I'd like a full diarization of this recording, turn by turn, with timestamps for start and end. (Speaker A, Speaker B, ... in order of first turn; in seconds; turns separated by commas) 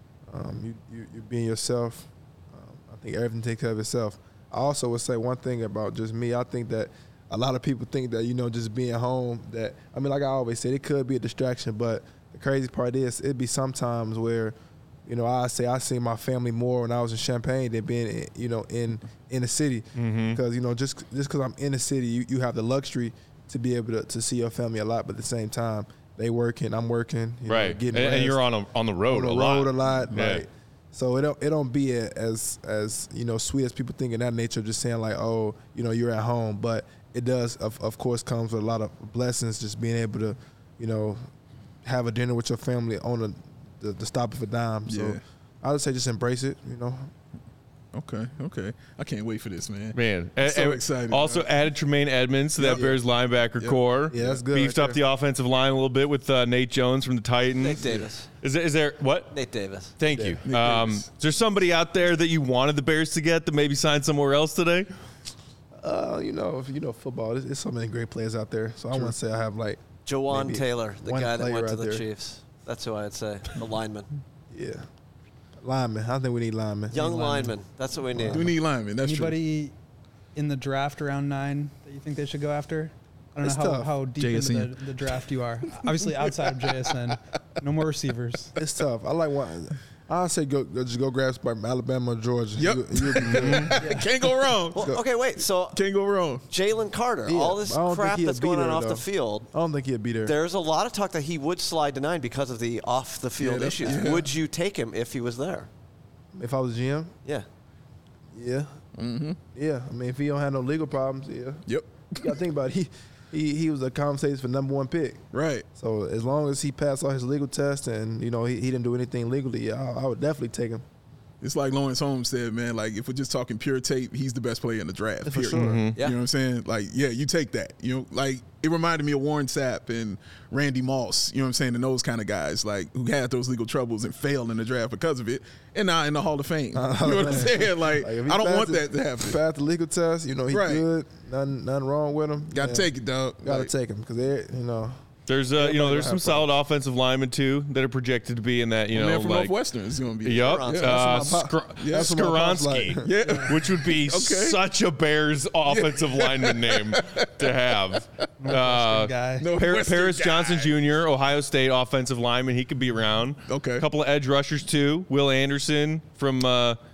Speaker A: 0.3-28.4, Speaker B: 20.0-20.4, Speaker B: 27.5-30.4, Speaker A: 29.1-41.2, Speaker A: 41.8-47.1, Speaker C: 44.9-45.2, Speaker C: 47.9-51.5, Speaker B: 49.9-59.3, Speaker C: 52.6-52.9, Speaker A: 52.6-53.0, Speaker C: 53.6-54.4, Speaker A: 54.1-55.0, Speaker D: 57.6-58.3, Speaker D: 59.3-59.9, Speaker B: 60.0-64.9, Speaker A: 60.1-60.4, Speaker C: 60.5-61.1, Speaker A: 65.8-72.0, Speaker D: 70.1-74.1, Speaker A: 74.5-74.9, Speaker A: 75.6-77.5, Speaker D: 76.9-78.5, Speaker A: 78.1-78.5, Speaker C: 78.3-79.4, Speaker E: 79.0-79.7, Speaker E: 80.3-88.6, Speaker A: 83.4-83.9, Speaker C: 84.2-85.0, Speaker C: 85.7-86.7, Speaker A: 88.6-93.9, Speaker C: 92.6-94.9, Speaker B: 93.4-93.7, Speaker E: 93.8-94.1, Speaker D: 94.7-95.8, Speaker A: 94.8-95.0, Speaker C: 95.7-96.4, Speaker D: 96.5-99.5, Speaker A: 97.3-100.4, Speaker D: 100.2-105.7, Speaker C: 103.4-104.3, Speaker A: 106.3-107.1, Speaker A: 108.3-108.8, Speaker C: 109.0-109.4, Speaker A: 109.5-115.2, Speaker C: 111.7-112.3, Speaker C: 115.3-115.7, Speaker A: 115.8-120.8, Speaker C: 121.4-139.4, Speaker A: 125.2-125.8, Speaker B: 125.5-126.0, Speaker A: 136.7-142.9, Speaker C: 140.5-140.8, Speaker C: 142.5-143.7, Speaker A: 143.4-145.0, Speaker B: 145.3-149.6, Speaker A: 145.5-146.5, Speaker C: 148.9-151.0, Speaker B: 150.2-166.8, Speaker D: 150.4-151.0, Speaker A: 150.8-153.2, Speaker C: 151.8-152.2, Speaker C: 153.0-154.6, Speaker E: 153.2-153.5, Speaker C: 155.7-157.5, Speaker E: 158.4-159.5, Speaker C: 159.4-160.7, Speaker C: 163.5-163.9